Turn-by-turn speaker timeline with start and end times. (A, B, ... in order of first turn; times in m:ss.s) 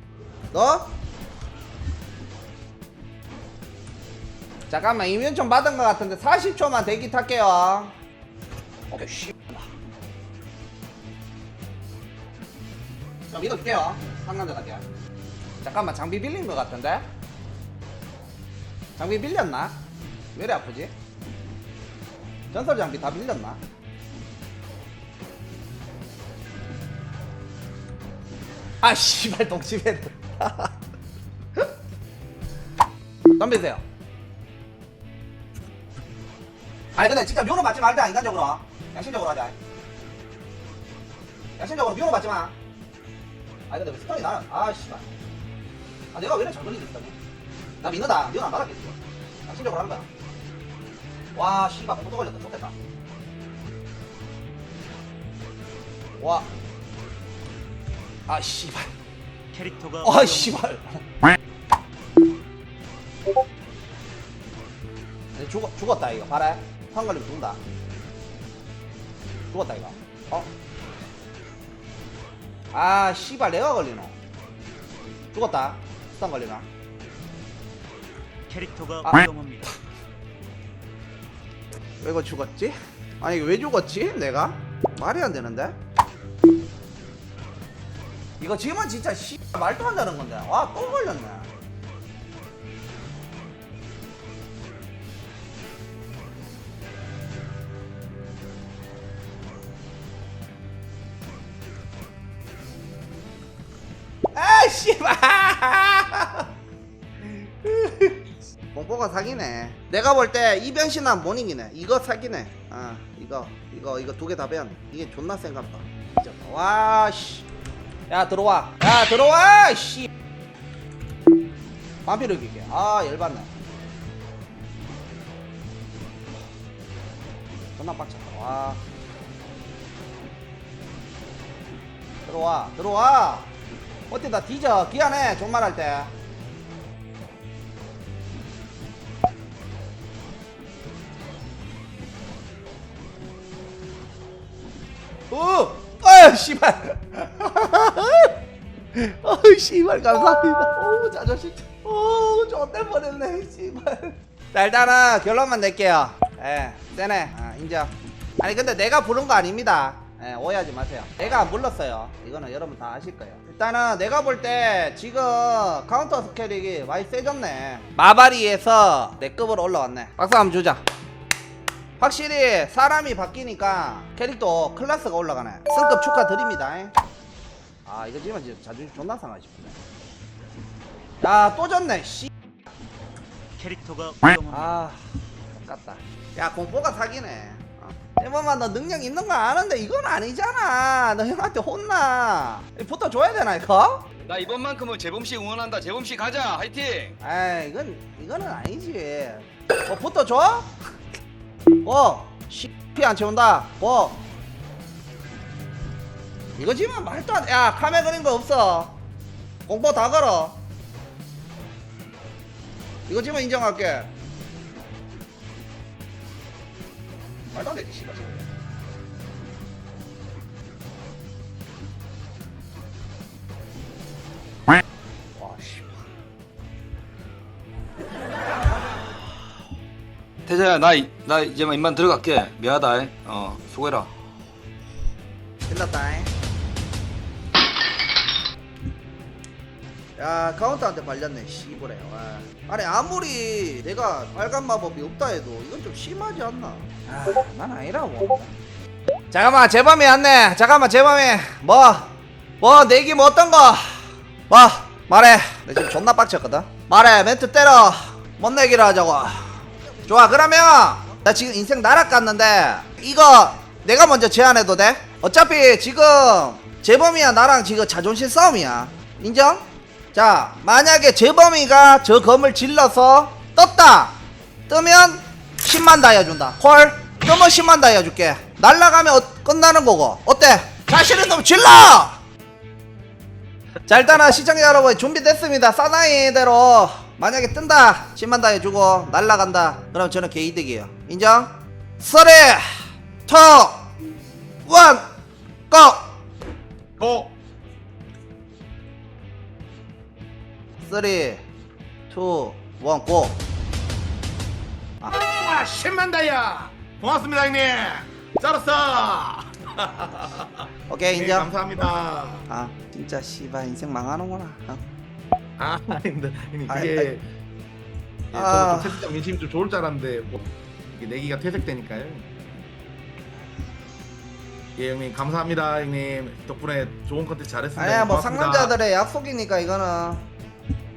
0:00.5-0:00.9 A
0:04.7-0:07.9 A
0:08.9-0:09.6 A
0:13.3-0:14.8 A
0:15.6-0:17.0 A
0:19.0-0:19.7 A
0:20.3-0:20.9 A
0:22.5-0:23.6 A
0:28.8-0:30.7 A
0:33.4-0:33.8 A
0:37.0-0:39.5 A
0:41.6-0:42.5 A
0:43.7-0:45.0 A
0:46.1-0:47.2 A
0:47.8-0:50.1 A
0:51.3-0:52.7 A
0:56.2-0:56.5 A
0:58.3-0:58.9 A
0:59.5-1:00.6 B
1:00.0-1:01.0 A
1:05.3-1:07.6 A
1:09.5-1:10.5 A
1:12.7-1:14.1 A
1:15.3-1:16.6 A
1:18.5-1:19.7 B
1:22.0-1:25.8 A
1:28.4-1:31.5 A
1:44.3-1:46.5 A
1:47.2-1:57.4 A
1:58.1-2:00.1 A
2:02.0-2:03.5 A
2:07.8-2:08.8 A
2:12.2-2:13.5 A
2:14.1-2:16.1 A
2:25.3-2:28.4 A
2:28.9-2:50.8 A
2:52.0-2:56.9 A
2:57.8-2:59.8 A
3:01.2-3:02.3 A
3:03.6-3:04.7 B
3:04.5-3:05.0 A
3:05.6-3:14.2 A
3:14.3-3:17.1 C
3:17.2-3:20.7 A
3:21.8-3:24.2 A
3:26.6-3:28.9 A
3:29.6-3:30.6 A
3:33.1-3:34.1 A
3:37.5-3:38.5 A
3:45.4-3:46.0 A
3:50.4-3:54.1 C
3:55.7-3:56.3 A
4:00.2-4:08.5 A
4:09.3-4:34.1 A
4:34.7-4:42.2 A
4:43.9-4:53.8 A
4:54.6-4:55.1 A
4:55.7-4:56.1 A
4:57.0-4:57.3 D
5:00.8-5:01.4 A
5:02.1-5:03.4 A
5:05.1-5:12.5 D
5:10.9-5:11.5 A
5:12.5-5:14.8 A
5:15.6-5:17.2 D
5:16.7-5:17.1 A
5:18.3-5:22.3 D
5:18.3-5:19.1 A
5:24.8-5:28.7 D
5:27.8-5:30.2 A